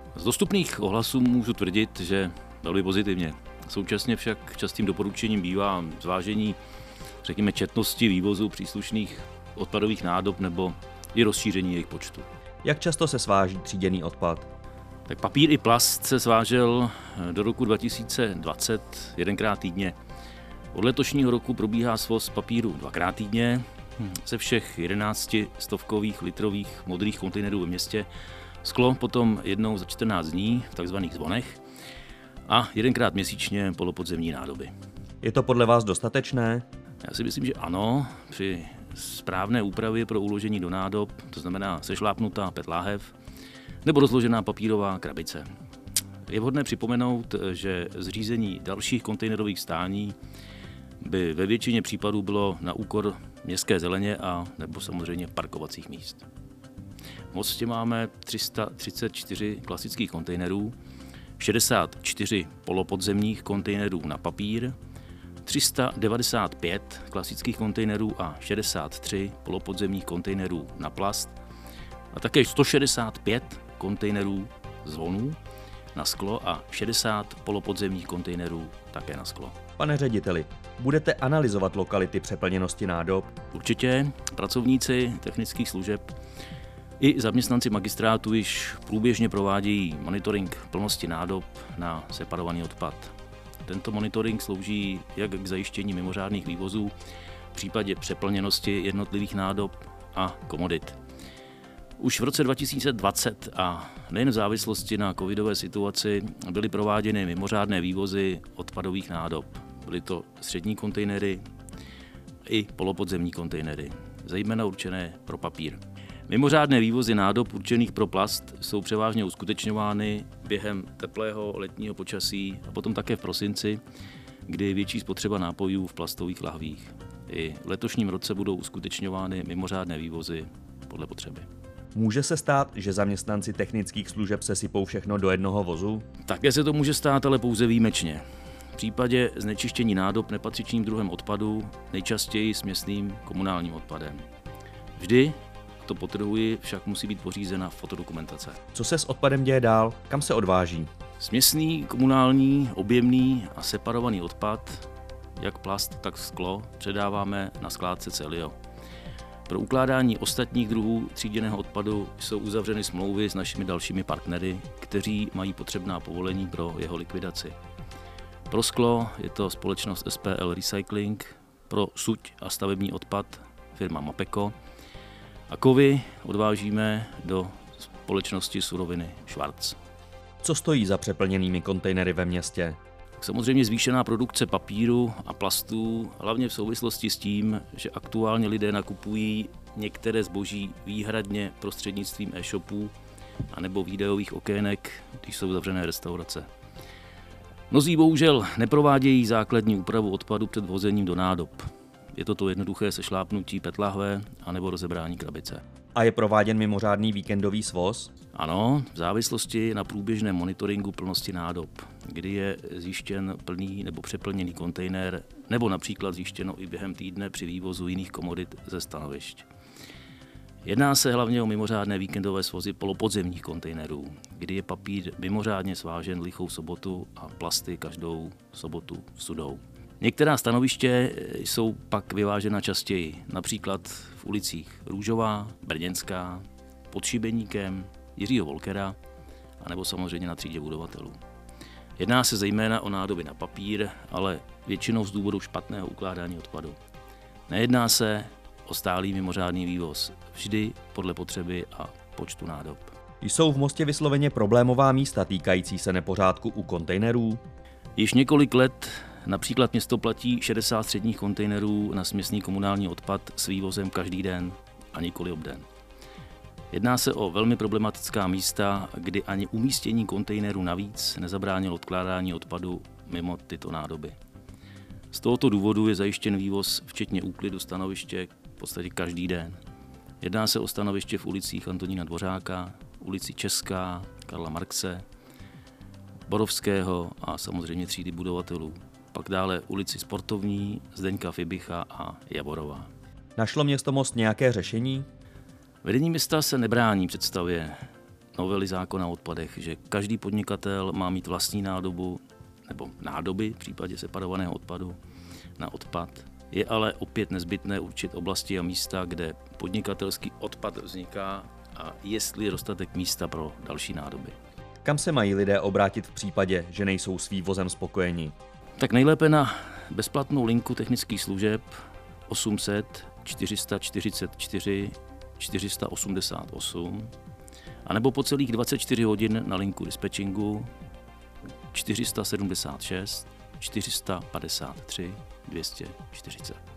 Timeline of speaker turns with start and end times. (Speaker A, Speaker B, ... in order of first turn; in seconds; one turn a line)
Speaker A: 0.1-6.6
Speaker A: 7.2-12.3
Speaker B: 12.6-14.5
Speaker A: 15.1-19.9
Speaker A: 20.7-28.1
Speaker A: 28.6-31.6
Speaker A: 32.5-34.7
Speaker B: 35.2-36.6
Speaker A: 37.0-43.1
Speaker A: 43.8-45.4
Speaker A: 46.3-50.2
Speaker A: 51.0-56.2
Speaker A: 57.3-60.7
Speaker A: 61.4-64.7
Speaker A: 65.5-71.3
Speaker A: 72.1-75.4
Speaker A: 75.9-79.5
Speaker B: 79.8-83.3
Speaker A: 83.5-86.1
Speaker A: 87.0-93.1
Speaker A: 93.6-96.9
Speaker A: 97.5-101.0
Speaker A: 102.0-111.4
Speaker A: 112.5-123.8
Speaker A: 124.5-131.5
Speaker B: 131.9-136.0
Speaker A: 136.2-138.2
Speaker A: 138.7-144.2
Speaker A: 145.0-148.6
Speaker B: 148.7-150.9
Speaker A: 151.2-158.5
Speaker A: 159.5-167.6
Speaker A: 168.5-174.5
Speaker A: 175.5-179.8
Speaker B: 180.4-182.8
Speaker A: 183.2-192.9
Speaker A: 193.5-196.5
Speaker A: 197.7-205.6
Speaker B: 205.9-208.1
Speaker A: 208.3-219.5
Speaker A: 220.6-238.9
Speaker A: 239.6-241.2
Speaker A: 242.0-246.8
Speaker A: 247.5-252.9
Speaker B: 253.2-257.4
Speaker A: 257.9-265.6
Speaker A: 266.7-274.1
Speaker A: 275.1-279.6
Speaker A: 280.2-285.0
Speaker A: 286.3-292.9
Speaker B: 293.4-295.1
Speaker A: 295.8-297.8
Speaker A: 298.3-305.0
Speaker A: 305.6-314.3
Speaker B: 314.8-318.3
Speaker A: 318.8-321.7
Speaker A: 322.3-327.1
Speaker A: 327.8-330.7
Speaker A: 331.7-336.6